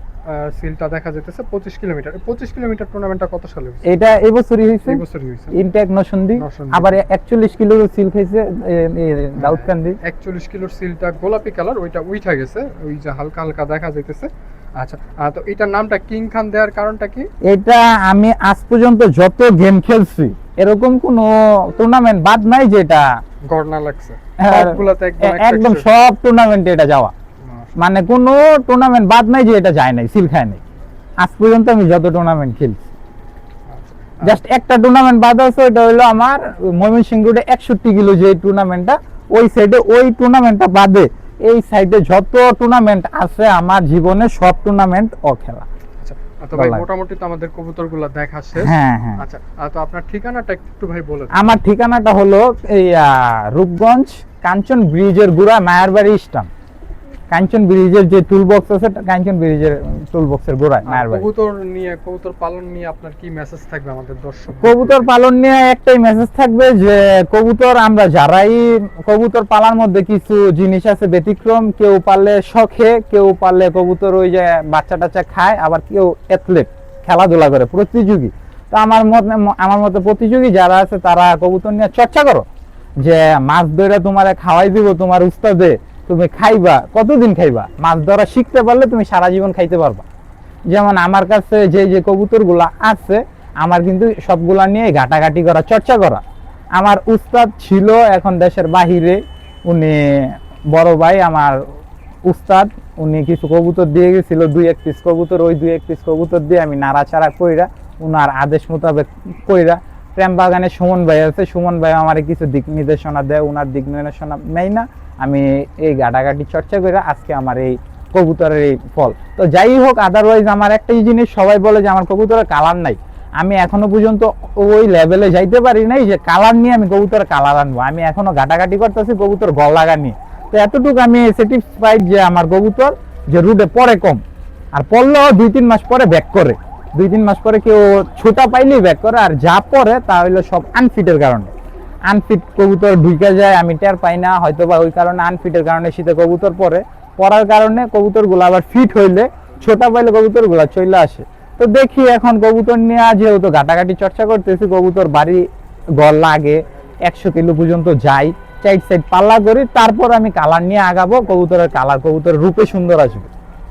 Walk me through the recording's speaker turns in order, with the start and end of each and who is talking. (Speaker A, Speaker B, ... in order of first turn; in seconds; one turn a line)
Speaker A: 0.3-3.9
Speaker B: 3.9-5.0
Speaker A: 4.8-5.6
Speaker B: 5.5-10.0
Speaker A: 6.4-7.0
Speaker A: 9.4-17.3
Speaker B: 17.4-23.1
Speaker A: 23.5-25.9
Speaker B: 24.4-27.1
Speaker A: 27.4-27.7
Speaker B: 27.8-30.6
Speaker B: 31.2-32.9
Speaker A: 33.7-34.4
Speaker B: 34.2-45.7
Speaker A: 46.0-51.5
Speaker B: 46.6-46.9
Speaker B: 48.6-49.2
Speaker B: 51.3-56.5
Speaker B: 57.3-61.3
Speaker A: 60.9-65.1
Speaker B: 64.6-82.5
Speaker B: 83.0-90.0
Speaker B: 90.7-96.2
Speaker B: 96.8-101.6
Speaker B: 102.3-134.2
Speaker B: 134.7-141.5
Speaker B: 142.1-155.5
Speaker B: 156.0-163.3